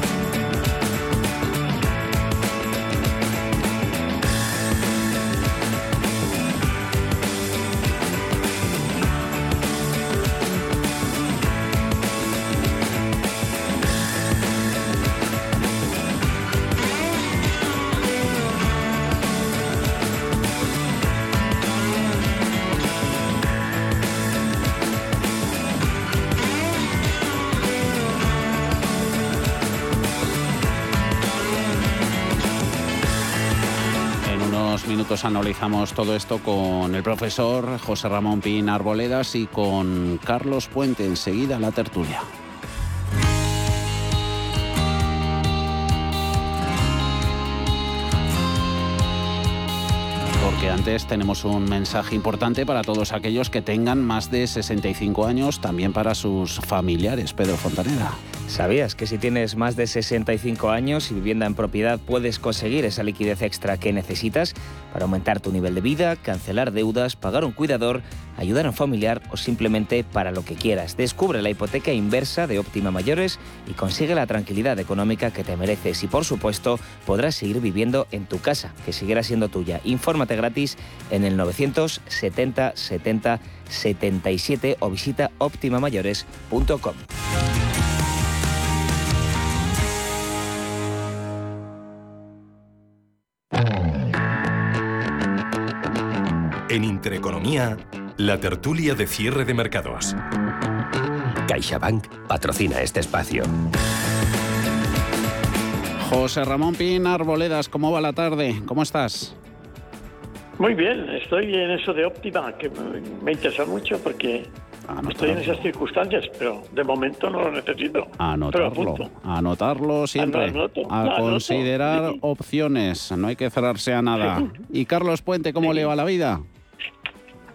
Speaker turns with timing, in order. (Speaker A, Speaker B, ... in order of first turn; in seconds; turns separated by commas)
Speaker A: 34.2-42.3, Speaker A: 50.4-58.2, Speaker B: 58.5-87.0, Speaker C: 96.7-100.2, Speaker C: 101.5-103.5, Speaker A: 106.0-109.4, Speaker D: 110.6-114.5, Speaker A: 114.9-115.7, Speaker D: 115.1-119.1, Speaker A: 118.2-126.4, Speaker D: 120.2-122.2